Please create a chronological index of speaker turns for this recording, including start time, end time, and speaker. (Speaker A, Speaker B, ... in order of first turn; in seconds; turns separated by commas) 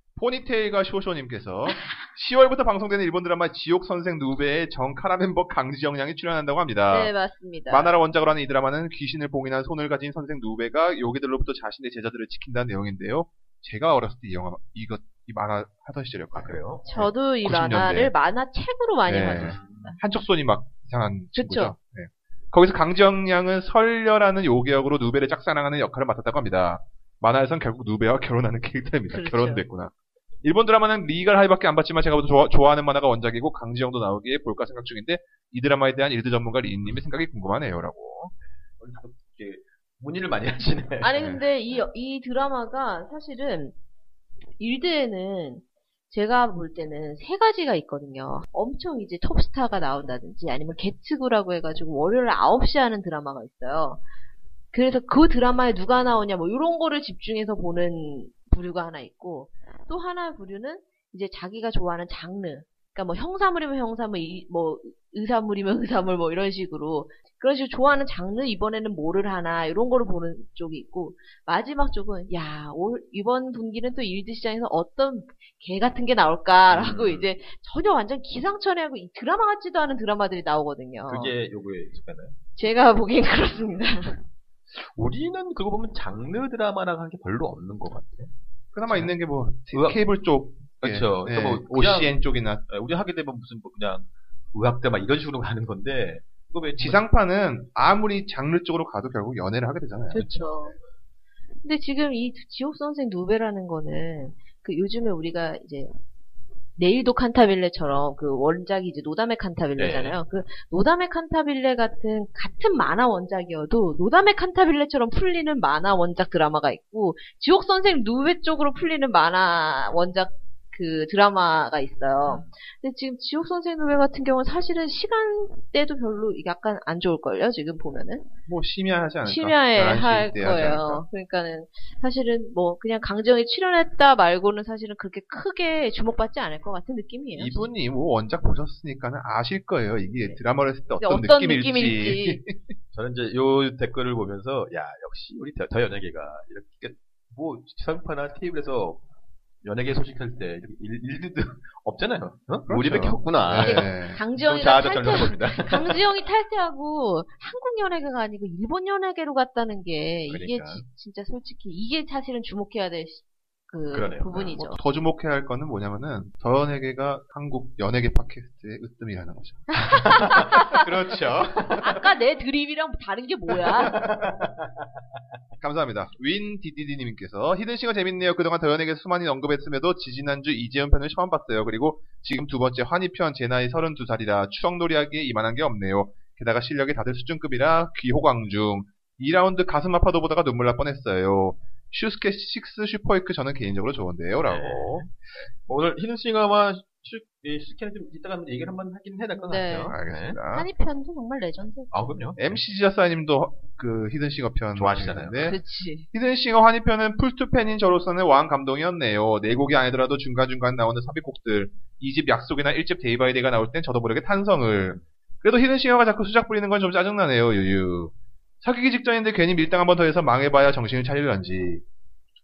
Speaker A: 0.2-7.1, Speaker B: 6.9-7.9, Speaker A: 7.7-18.1, Speaker C: 16.3-16.9, Speaker B: 16.8-20.0, Speaker A: 19.1-38.3, Speaker C: 19.2-19.9, Speaker B: 21.3-21.7, Speaker B: 29.1-29.6, Speaker C: 38.8-41.2, Speaker B: 41.0-43.8, Speaker A: 41.2-41.4, Speaker B: 44.6-54.0, Speaker B: 54.7-81.3, Speaker C: 76.7-77.3, Speaker C: 81.1-82.4, Speaker B: 82.5-84.2, Speaker C: 84.7-88.3, Speaker A: 88.7-92.6, Speaker C: 89.7-90.0, Speaker C: 90.8-97.0, Speaker A: 96.8-100.7, Speaker B: 100.1-100.7, Speaker B: 101.6-105.9, Speaker B: 106.8-128.2, Speaker C: 109.8-110.2, Speaker C: 122.2-122.5, Speaker A: 128.5-131.0, Speaker B: 129.2-137.6, Speaker A: 137.3-142.7, Speaker B: 141.0-142.4, Speaker C: 142.9-149.0, Speaker C: 149.6-156.1, Speaker A: 152.7-154.2, Speaker B: 153.5-164.8, Speaker C: 160.3-160.8, Speaker C: 163.9-164.5, Speaker A: 164.4-169.8, Speaker B: 169.8-170.8, Speaker C: 169.8-172.0, Speaker B: 171.8-174.0, Speaker C: 173.6-174.8, Speaker A: 175.6-195.1, Speaker C: 194.4-200.4, Speaker B: 199.4-200.0, Speaker A: 199.9-200.7, Speaker B: 200.5-201.9, Speaker C: 201.9-202.6, Speaker A: 202.4-205.6, Speaker C: 204.8-205.5, Speaker B: 205.4-206.1, Speaker A: 206.1-221.8